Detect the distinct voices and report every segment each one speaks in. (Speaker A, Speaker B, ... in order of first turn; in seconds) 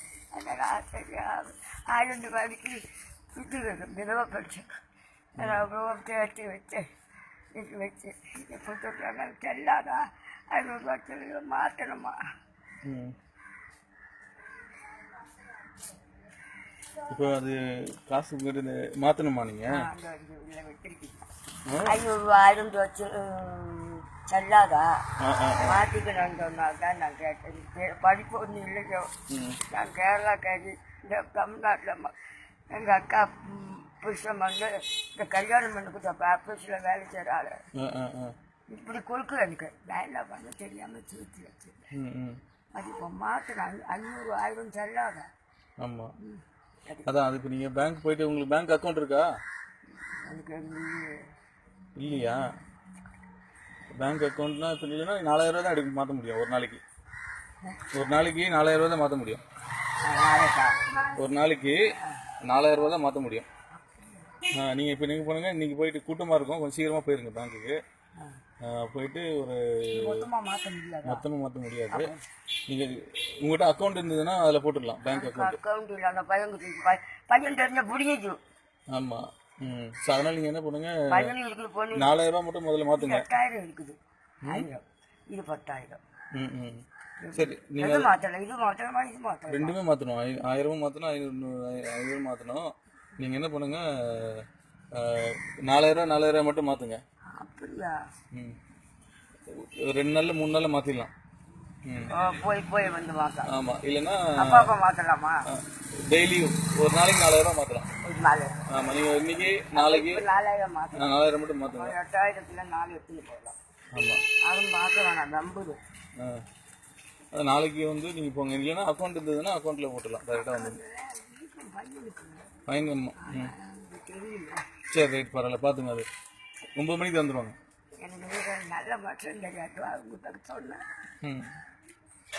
Speaker A: 0.3-4.7, 5.4-6.9, 7.5-12.2, 19.7-21.3, 21.8-25.0, 25.6-29.1, 29.6-32.1, 32.7-37.6, 38.7-41.9, 42.7-45.3, 46.2-47.2, 50.2-51.3, 60.0-61.0, 63.7-64.4, 69.9-71.2, 71.9-72.2, 75.1-78.4, 81.1-82.2, 83.0-86.0, 87.2-89.8, 97.3-98.0, 102.1-103.5, 104.4-105.5, 108.0-108.7, 109.7-113.5, 114.4-115.8, 120.3-122.5, 123.2-124.6, 128.0-130.8
Speaker B: 5.4-5.6, 12.8-13.1, 17.1-19.8, 21.7-22.0, 25.2-25.8, 29.3-29.6, 37.7-38.3, 41.9-42.4, 45.8-46.1, 47.0-49.3, 52.0-52.4, 54.0-56.8, 57.9-59.4, 61.1-61.8, 62.4-63.5, 64.5-67.8, 68.6-70.3, 71.0-72.1, 72.7-75.6, 78.9-81.3, 81.9-83.3, 84.4-84.7, 86.3-88.1, 89.5-97.0, 99.5-101.1, 101.8-102.1, 103.5-104.7, 105.5-107.9, 108.7-110.2, 111.0-112.0, 113.9-114.2, 117.3-120.8, 122.7-123.5, 124.9-126.1, 126.8-127.5, 131.2-131.5